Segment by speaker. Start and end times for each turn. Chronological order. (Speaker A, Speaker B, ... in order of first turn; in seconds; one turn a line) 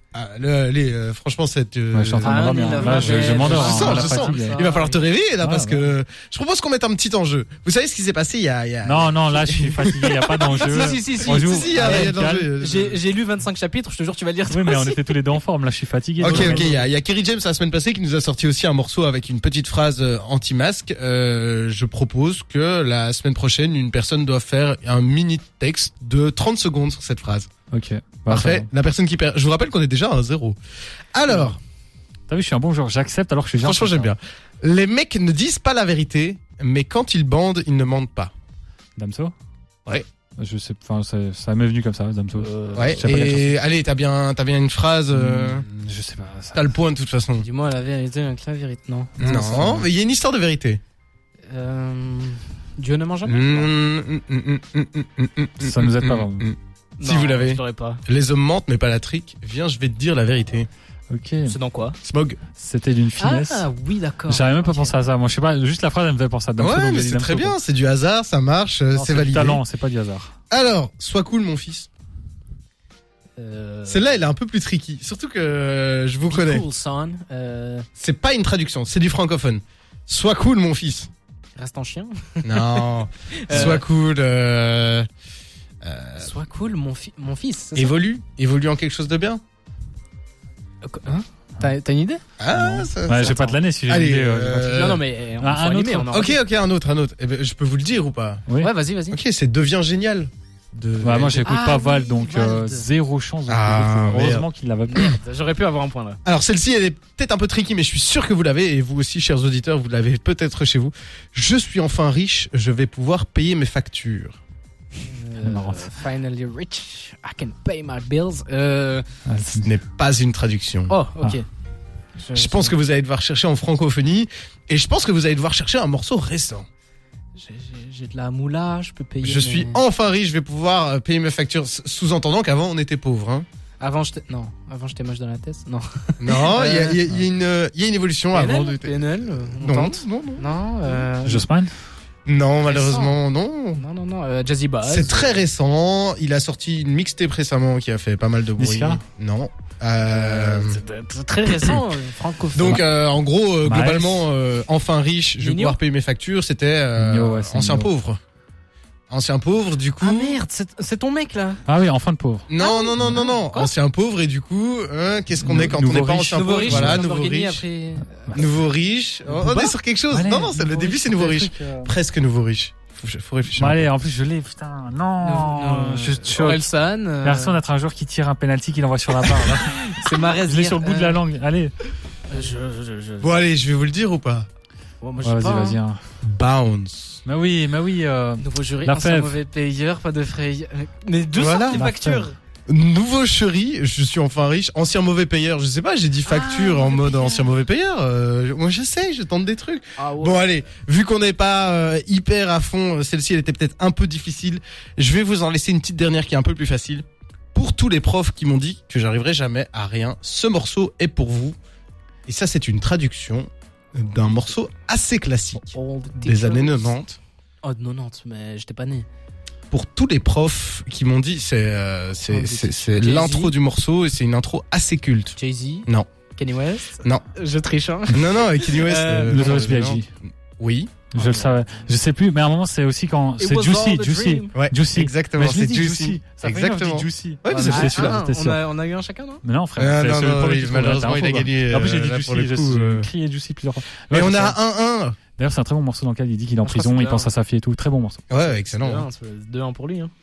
Speaker A: 0.1-13.0
Speaker B: 1.9-4.6
Speaker C: 2.2-5.0
Speaker B: 5.4-5.9
Speaker B: 8.8-12.5
Speaker C: 10.5-15.2
Speaker B: 14.5-16.8
Speaker A: 16.2-27.5
Speaker C: 16.2-16.8
Speaker B: 27.7-28.7
Speaker A: 28.3-30.6
Speaker A: 31.1-31.6
Speaker B: 32.3-34.1
Speaker A: 33.6-38.3
Speaker B: 39.0-39.3
Speaker B: 40.4-43.6
Speaker C: 42.4-43.0
Speaker A: 42.8-45.6
Speaker B: 45.1-46.7
Speaker A: 46.5-47.5
Speaker C: 47.4-49.5
Speaker A: 49.2-50.8
Speaker B: 49.2-49.8
Speaker C: 51.5-53.7
Speaker A: 53.2-60.7
Speaker B: 55.6-56.5
Speaker C: 57.0-58.0
Speaker B: 61.1-61.5
Speaker C: 61.5-62.0
Speaker A: 62.0-62.4
Speaker B: 62.6-63.6
Speaker C: 63.2-65.0
Speaker B: 64.3-67.6
Speaker A: 66.6-69.6
Speaker B: 68.9-70.3
Speaker A: 70.5-71.9
Speaker C: 73.4-74.1
Speaker A: 73.9-76.7
Speaker C: 76.3-77.9
Speaker A: 78.0-81.1
Speaker C: 81.6-83.8
Speaker A: 82.4-85.1
Speaker A: 85.8-86.3
Speaker C: 86.2-88.0
Speaker A: 87.8-89.4
Speaker C: 90.8-92.2
Speaker A: 92.4-95.0
Speaker B: 92.8-96.1
Speaker C: 93.2-93.6
Speaker C: 94.6-96.4
Speaker A: 96.1-98.4
Speaker C: 98.6-99.2
Speaker A: 99.1-101.4
Speaker B: 101.0-105.1
Speaker C: 101.3-102.9
Speaker A: 103.5-105.2
Speaker C: 104.9-106.2
Speaker A: 106.2-114.4
Speaker C: 115.0-119.1
Speaker B: 115.4-115.9
Speaker B: 119.3-119.7
Speaker A: 119.6-121.0
Speaker C: 120.9-121.5
Speaker C: 122.2-122.8
Speaker A: 122.3-126.7
Speaker C: 127.4-129.8
Speaker A: 129.2-133.5
Speaker C: 133.8-137.0
Speaker A: 136.2-141.1
Speaker C: 138.3-141.5
Speaker B: 141.2-141.7
Speaker A: 142.3-143.8
Speaker C: 142.7-143.2
Speaker C: 143.8-145.4
Speaker A: 144.8-150.8
Speaker B: 148.6-149.0
Speaker C: 150.0-152.8
Speaker A: 152.6-158.2
Speaker B: 153.6-154.3
Speaker C: 155.4-155.8
Speaker B: 157.0-157.9
Speaker A: 159.1-160.4
Speaker C: 160.0-161.6
Speaker B: 161.7-162.5
Speaker A: 162.5-167.6
Speaker C: 162.6-163.7
Speaker B: 165.4-167.1
Speaker C: 166.3-168.4
Speaker A: 168.3-173.9
Speaker B: 169.3-171.9
Speaker B: 173.6-176.6
Speaker C: 175.2-177.6
Speaker B: 177.2-181.8
Speaker C: 179.3-181.2
Speaker C: 182.3-183.4
Speaker A: 183.2-184.5
Speaker C: 185.0-185.8
Speaker B: 185.2-186.0
Speaker A: 186.2-187.2
Speaker B: 187.2-189.4
Speaker C: 188.4-192.4
Speaker A: 191.3-191.9
Speaker B: 191.7-192.3
Speaker A: 192.7-211.6
Speaker C: 196.3-197.6
Speaker C: 200.0-200.4
Speaker A: 212.3-217.2
Speaker C: 215.6-216.9
Speaker C: 217.6-219.1
Speaker A: 219.7-225.4
Speaker C: 222.3-223.6
Speaker C: 225.4-229.4
Speaker A: 228.1-230.0
Speaker B: 229.3-230.1
Speaker A: 230.6-230.9
Speaker B: 231.1-238.6
Speaker C: 231.2-231.5
Speaker C: 233.4-234.5
Speaker A: 234.5-238.2
Speaker C: 237.6-239.4
Speaker B: 239.4-244.6
Speaker A: 239.8-243.1
Speaker A: 244.1-245.2
Speaker B: 245.4-248.2
Speaker C: 246.6-247.3
Speaker A: 248.3-249.1
Speaker C: 248.4-250.1